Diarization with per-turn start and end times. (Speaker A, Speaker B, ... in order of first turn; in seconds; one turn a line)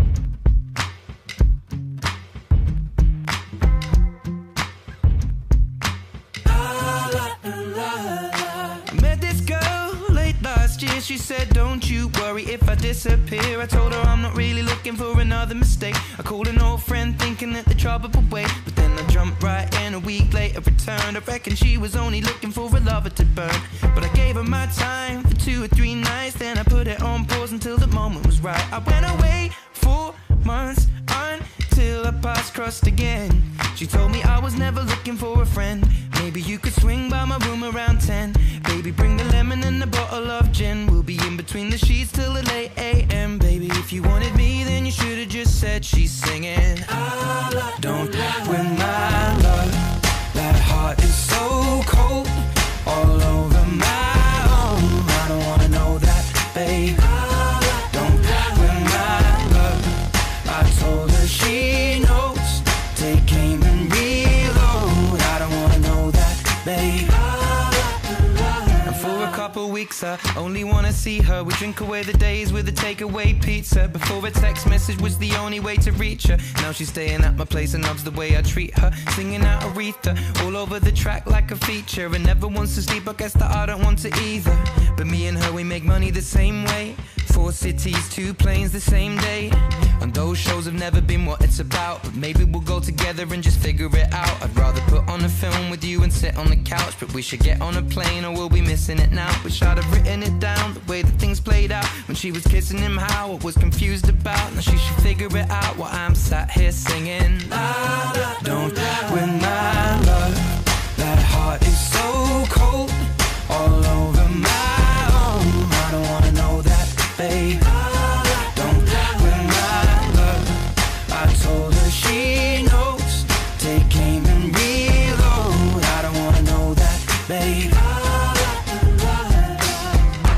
Speaker A: 8.9-130.1